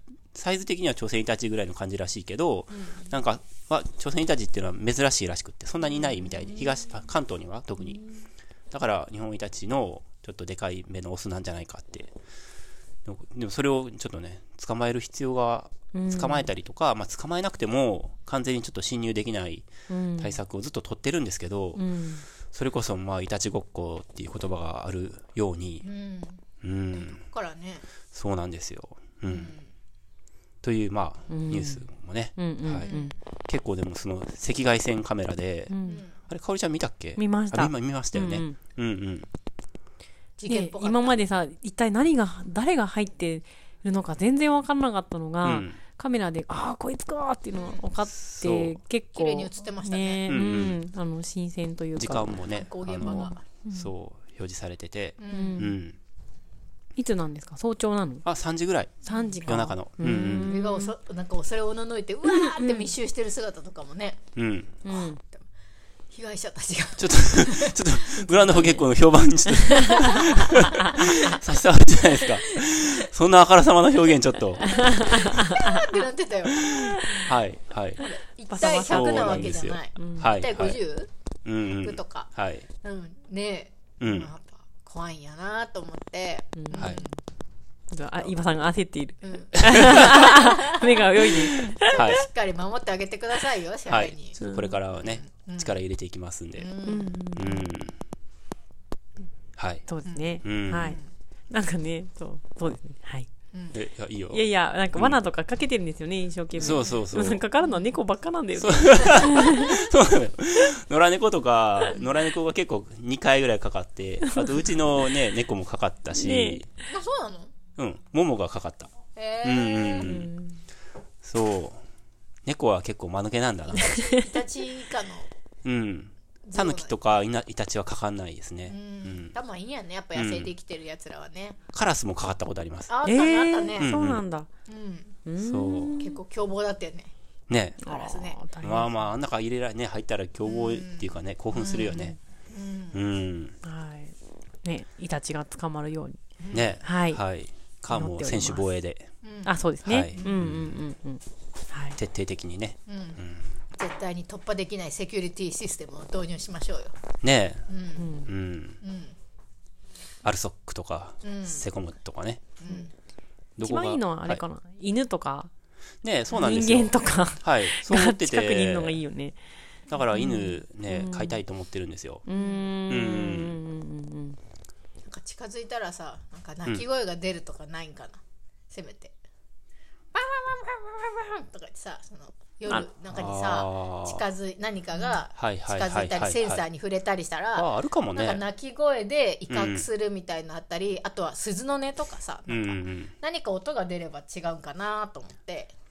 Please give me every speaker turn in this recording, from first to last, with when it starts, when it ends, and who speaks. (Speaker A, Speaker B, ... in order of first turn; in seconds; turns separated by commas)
Speaker A: 0.3-8.0, Speaker B: 2.7-3.1, Speaker A: 8.7-12.1, Speaker A: 13.0-21.8, Speaker C: 15.9-16.5, Speaker C: 19.9-20.4, Speaker C: 21.7-22.2, Speaker A: 22.5-25.9, Speaker B: 25.8-26.4, Speaker A: 26.6-27.2, Speaker B: 26.9-27.9, Speaker A: 28.1-29.5, Speaker B: 29.3-29.6, Speaker A: 30.6-32.9, Speaker C: 31.3-31.8, Speaker C: 32.4-33.1, Speaker B: 32.8-33.1, Speaker A: 33.5-35.7, Speaker C: 35.7-36.0, Speaker B: 35.8-36.1, Speaker A: 36.3-39.3, Speaker C: 37.2-38.6, Speaker B: 40.4-41.2, Speaker C: 40.5-52.4, Speaker A: 45.4-45.8, Speaker B: 47.5-47.9, Speaker A: 48.1-48.8, Speaker B: 49.1-50.3, Speaker A: 50.3-50.8, Speaker A: 52.0-56.0, Speaker B: 52.5-53.4, Speaker C: 53.0-53.9, Speaker B: 55.2-55.7, Speaker C: 55.3-55.7, Speaker C: 57.0-58.2, Speaker A: 58.2-60.5, Speaker C: 59.0-60.9, Speaker B: 59.1-59.4, Speaker B: 60.4-64.2, Speaker C: 62.2-62.9, Speaker A: 64.3-64.8, Speaker C: 64.8-65.2, Speaker B: 64.9-65.4, Speaker B: 66.1-67.9, Speaker A: 67.0-75.1, Speaker C: 68.2-68.8, Speaker C: 69.5-71.1, Speaker B: 69.9-71.4, Speaker B: 72.2-72.8, Speaker C: 74.6-75.9, Speaker B: 74.6-77.3, Speaker C: 76.7-77.2, Speaker A: 76.8-78.0, Speaker B: 78.0-81.1, Speaker C: 78.5-80.3, Speaker A: 78.6-80.8, Speaker A: 81.4-82.7, Speaker B: 81.8-87.1, Speaker A: 84.0-84.3, Speaker C: 86.5-87.1, Speaker C: 87.9-92.0, Speaker B: 89.2-94.4, Speaker A: 91.8-92.2, Speaker A: 93.9-96.7, Speaker C: 94.4-94.7, Speaker B: 94.9-95.8, Speaker B: 96.5-97.2, Speaker C: 96.8-97.7, Speaker A: 97.3-98.0, Speaker A: 99.6-99.9, Speaker C: 99.9-101.0, Speaker B: 100.0-101.0, Speaker A: 100.4-101.0, Speaker C: 101.5-103.3, Speaker A: 103.7-105.2, Speaker C: 104.3-109.8, Speaker B: 106.6-107.0, Speaker A: 106.6-107.4, Speaker B: 107.6-107.9, Speaker A: 108.5-116.7, Speaker C: 114.2-114.5, Speaker C: 116.1-116.6, Speaker B: 116.9-117.5, Speaker A: 117.8-120.3, Speaker B: 119.1-120.2, Speaker C: 120.0-120.6, Speaker A: 121.2-121.8, Speaker A: 122.5-123.9, Speaker B: 123.7-125.3, Speaker A: 125.6-129.3, Speaker B: 126.5-126.9, Speaker B: 128.7-131.6, Speaker A: 130.1-130.5, Speaker A: 131.7-132.9, Speaker B: 132.9-133.9, Speaker C: 133.0-134.5, Speaker A: 133.8-134.2, Speaker B: 134.7-135.2, Speaker C: 135.2-136.2, Speaker A: 135.4-135.9, Speaker B: 136.0-137.1, Speaker A: 137.5-137.8, Speaker C: 137.8-139.0, Speaker B: 137.8-138.4, Speaker A: 138.6-142.1, Speaker B: 140.4-143.0, Speaker A: 142.9-143.6, Speaker C: 143.6-146.2, Speaker B: 146.4-146.8, Speaker A: 146.5-149.1, Speaker C: 146.8-147.2, Speaker C: 147.9-148.7, Speaker B: 149.2-149.6, Speaker C: 149.4-152.0, Speaker A: 149.8-150.7, Speaker B: 150.1-150.4, Speaker A: 152.0-153.5, Speaker B: 152.9-153.2, Speaker B: 153.8-156.9, Speaker A: 157.2-157.7, Speaker B: 157.7-158.1, Speaker C: 158.0-158.3, Speaker A: 158.2-158.8, Speaker B: 158.8-159.1, Speaker A: 160.2-162.5, Speaker B: 161.2-161.6, Speaker B: 162.6-162.9, Speaker A: 163.6-164.4, Speaker C: 163.6-165.5, Speaker A: 166.0-169.0, Speaker C: 166.3-169.3, Speaker A: 169.9-172.2, Speaker C: 170.1-171.4, Speaker C: 172.2-174.4, Speaker B: 172.3-172.7, Speaker A: 172.9-173.6, Speaker B: 175.0-179.1, Speaker B: 180.1-195.7, Speaker A: 183.1-184.2, Speaker A: 185.3-186.6, Speaker A: 187.5-188.4, Speaker A: 189.5-189.8, Speaker A: 192.5-193.1